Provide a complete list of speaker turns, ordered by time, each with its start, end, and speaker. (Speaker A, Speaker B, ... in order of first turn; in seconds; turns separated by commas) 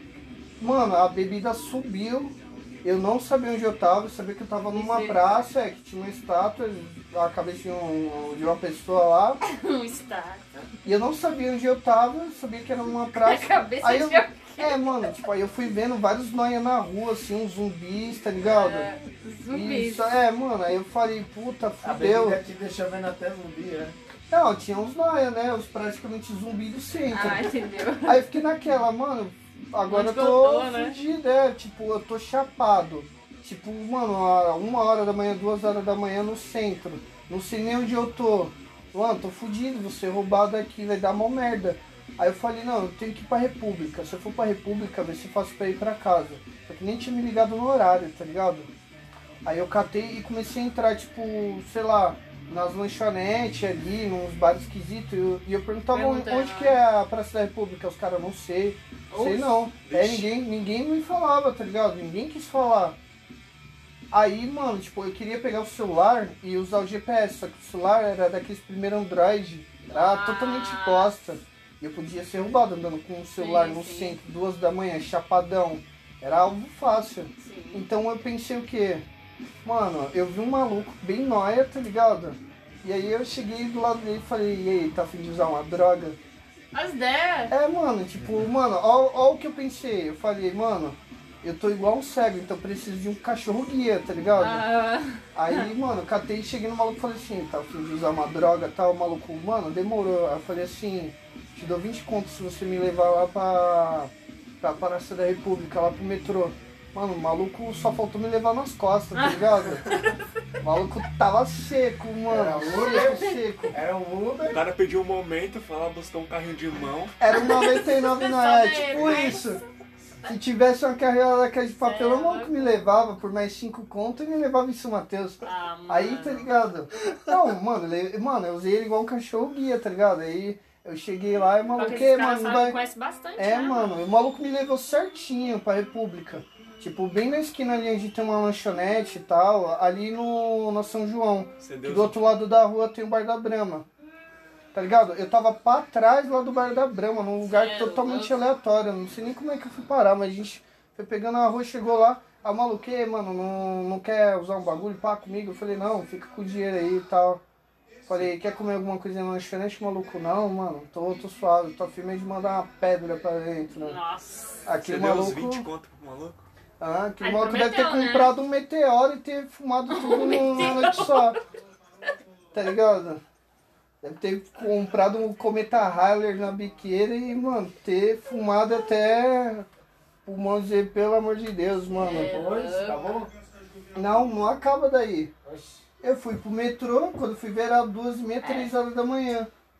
Speaker A: 0.6-9.4, Speaker B: 4.7-5.5, Speaker B: 9.4-10.4, Speaker A: 10.8-18.9, Speaker B: 13.1-15.0, Speaker B: 18.4-20.2, Speaker A: 19.5-22.4, Speaker C: 21.8-23.9, Speaker A: 24.3-27.5, Speaker B: 27.1-28.4, Speaker A: 28.0-48.7, Speaker B: 29.9-31.0, Speaker A: 49.4-63.0, Speaker B: 55.9-56.8, Speaker B: 59.1-59.6, Speaker D: 59.8-60.3, Speaker A: 64.1-79.0, Speaker B: 69.9-71.1, Speaker B: 73.4-74.2, Speaker B: 77.4-77.8, Speaker A: 79.6-86.2, Speaker B: 86.7-87.5, Speaker A: 87.5-94.6, Speaker B: 94.3-95.7, Speaker A: 95.3-109.9, Speaker B: 109.1-110.1, Speaker A: 110.6-113.8, Speaker C: 112.3-114.6, Speaker B: 112.8-113.4, Speaker D: 114.5-117.2, Speaker A: 117.2-119.6, Speaker B: 117.3-119.6, Speaker A: 120.2-132.8, Speaker B: 121.8-122.8, Speaker B: 125.4-126.5, Speaker B: 131.8-133.9, Speaker A: 133.4-143.9, Speaker D: 141.6-142.3, Speaker A: 144.7-157.4, Speaker B: 147.4-148.4, Speaker A: 158.1-164.0, Speaker B: 163.8-164.7, Speaker A: 164.6-165.7, Speaker D: 164.8-166.4, Speaker A: 166.8-171.4, Speaker B: 167.2-168.3, Speaker B: 169.9-171.3, Speaker A: 172.5-173.2, Speaker A: 174.0-179.7, Speaker A: 180.2-182.3, Speaker C: 181.9-183.3, Speaker B: 182.0-183.0, Speaker A: 183.9-185.3, Speaker C: 185.4-185.8, Speaker A: 186.0-189.5, Speaker B: 188.4-188.7